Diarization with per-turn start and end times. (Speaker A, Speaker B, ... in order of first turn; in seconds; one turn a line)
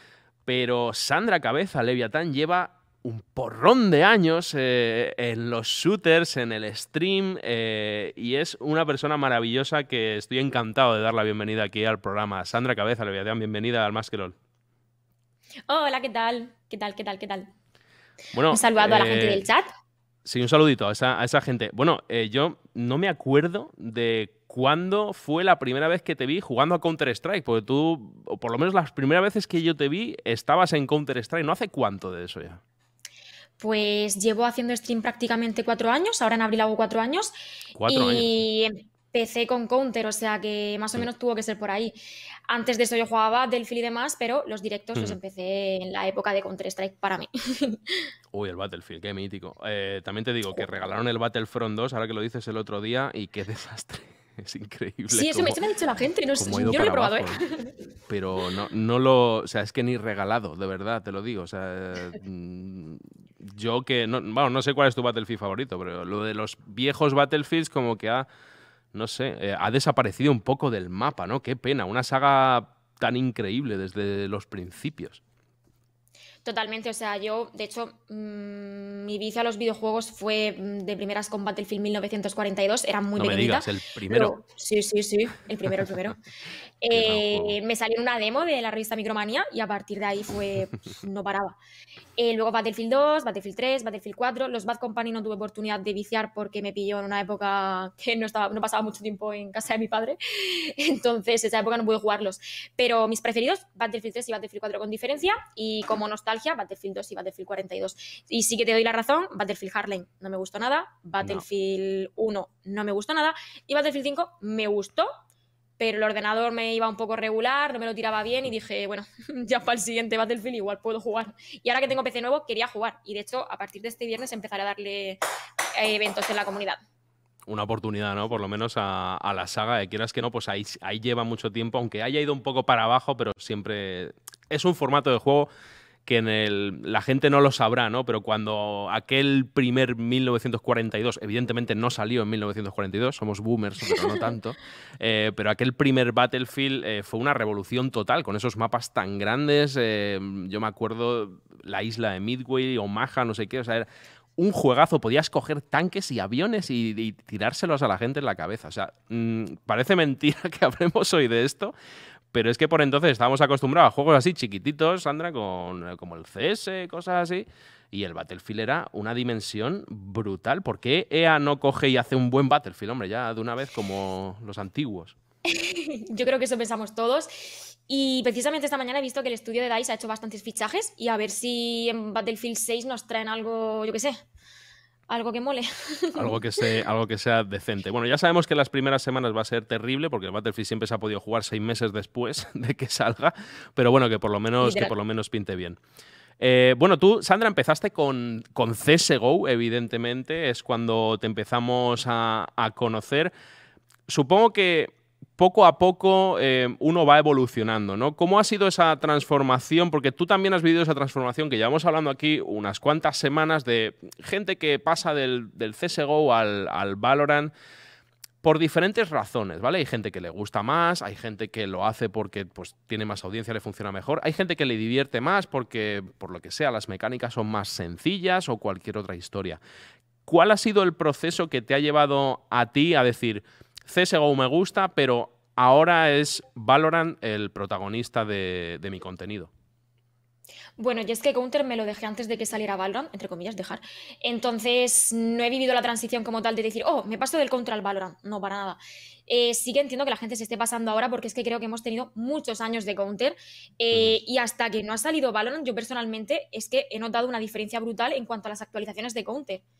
Speaker A: 0.5-14.3
Speaker B: 15.7-17.5
Speaker A: 18.3-19.4
Speaker B: 18.5-19.7
Speaker A: 20.2-32.6
Speaker B: 33.6-37.3
Speaker A: 37.7-38.5
Speaker B: 37.9-42.0
Speaker B: 42.5-48.0
Speaker A: 48.3-55.6
Speaker B: 55.1-57.7
Speaker A: 56.4-57.4
Speaker A: 58.1-68.2
Speaker A: 68.9-75.2
Speaker B: 76.4-86.2
Speaker A: 83.2-84.3
Speaker B: 86.8-91.6
Speaker A: 86.9-87.6
Speaker B: 92.2-115.1
Speaker B: 115.8-125.2
Speaker B: 125.7-126.8
Speaker A: 127.5-135.5
Speaker A: 136.1-161.7
Speaker A: 162.3-175.1
Speaker B: 175.4-184.2
Speaker B: 185.1-186.6
Speaker A: 186.1-195.8
Speaker B: 194.6-194.9
Speaker A: 196.4-203.3
Speaker A: 204.1-217.5
Speaker A: 218.4-229.6
Speaker A: 230.2-239.5
Speaker B: 240.8-259.6
Speaker A: 253.9-254.2